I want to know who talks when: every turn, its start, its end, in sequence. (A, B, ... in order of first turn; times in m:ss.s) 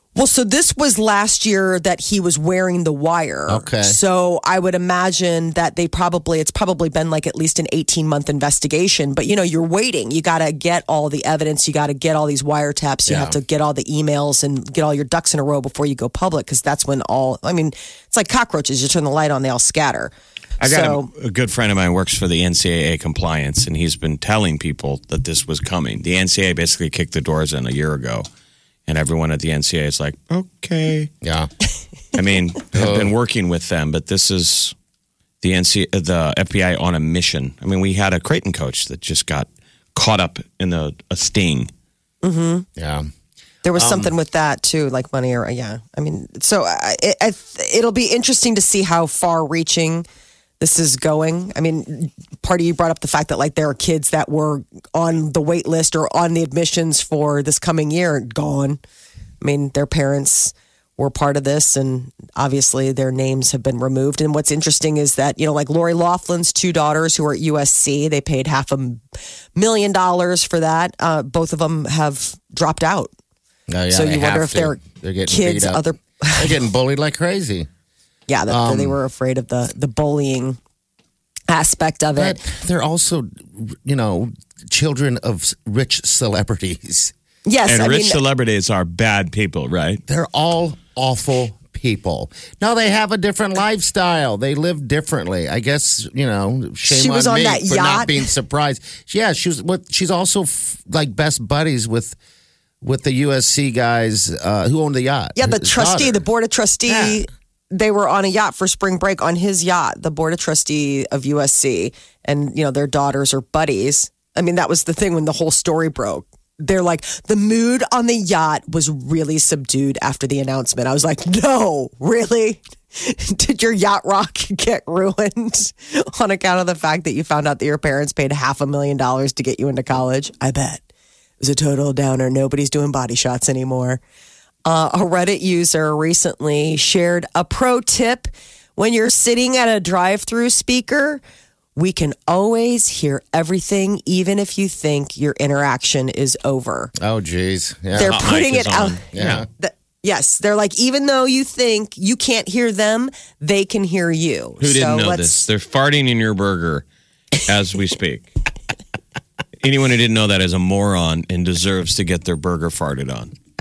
0:00.1-0:21.1 A
0:03.5-0:04.0 B
0:13.1-0:13.4 B
0:20.6-0:28.2 C
0:28.9-0:31.1 C
0:31.2-0:31.5 B
0:32.1-0:34.7 C
0:32.7-0:33.1 B
0:35.4-0:41.7 C
0:42.2-0:42.7 A
0:42.8-0:43.1 B
0:43.6-0:50.0 A
0:43.7-0:44.1 B
0:50.6-0:58.8 A
0:59.4-1:09.0 A
1:09.5-1:13.1 A
1:13.7-1:15.8 B
1:13.9-1:16.5 A
1:16.4-1:17.7 B
1:18.3-1:20.6 A
1:18.5-1:19.0 B
1:21.5-1:22.4 A
1:22.2-1:27.1 B
1:27.4-1:28.2 A
1:27.7-1:30.0 C
1:30.1-1:42.2 B
1:36.9-1:38.3 A
1:42.8-1:46.2 B
1:45.4-2:10.8 A
1:46.9-1:47.2 B
2:11.4-2:14.0 A
2:14.6-2:21.2 A
2:21.8-2:26.9 A
2:27.0-2:28.3 B
2:27.9-2:29.4 C
2:28.0-2:29.0 A
2:29.1-2:29.5 B
2:29.6-2:35.4 A
2:34.6-2:36.8 C
2:37.4-2:38.3 C
2:39.6-2:43.3 C